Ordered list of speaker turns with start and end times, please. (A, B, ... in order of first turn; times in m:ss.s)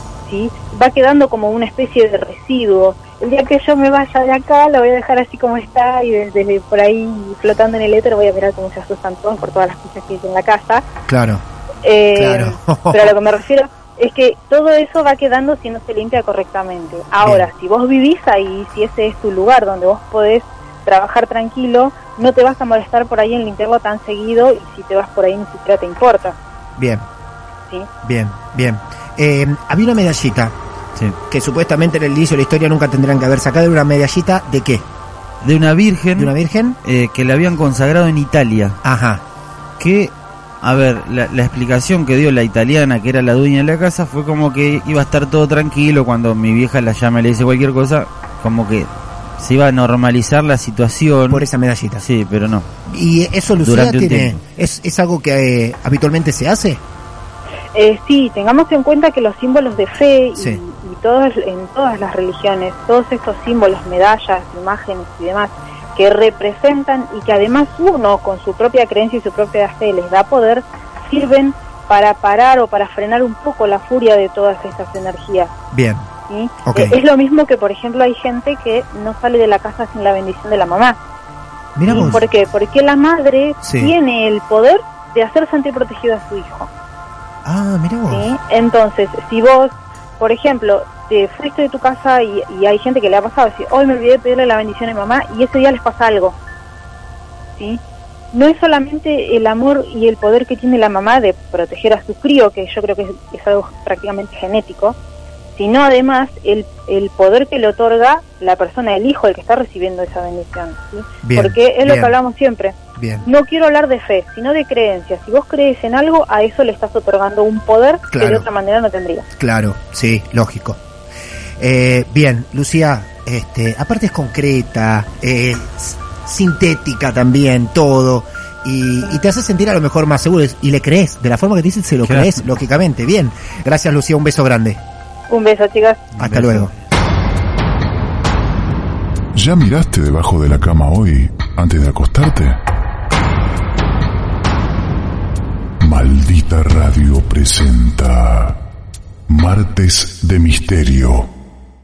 0:00.3-0:10.9 A
0:11.1-0:11.4 B
0:11.8-0:26.4 A
0:12.1-0:13.1 B
0:17.2-0:17.5 B
0:26.8-0:27.0 B
0:28.0-0:30.6 B
0:31.3-0:34.8 B
0:35.4-0:36.3 C
0:36.2-0:36.8 B
0:36.8-0:38.8 C
0:38.8-0:39.2 B
0:39.8-0:48.9 C
0:49.4-0:51.4 C
0:51.3-0:52.0 B
0:52.0-0:52.7 C
0:52.9-0:56.8 B
0:53.6-0:54.4 C
0:57.7-1:15.5 A
1:15.7-1:16.1 B
1:16.3-1:21.0 A
1:16.6-1:17.0 B
1:21.8-1:22.2 B
1:21.9-1:26.7 A
1:23.6-1:23.9 B
1:27.4-1:28.3 B
1:28.1-1:36.4 A
1:38.3-1:45.0 A
1:45.6-1:59.3 A
1:51.2-1:52.1 B
1:53.0-1:53.2 B
1:58.1-1:58.4 B
1:59.4-2:00.8 B
2:01.6-2:14.8 B
2:12.0-2:12.4 C
2:15.3-2:16.1 A
2:16.2-2:16.7 B
2:16.2-2:16.7 C
2:19.3-2:22.6 D
2:25.8-2:28.6 D
2:29.3-2:31.3 D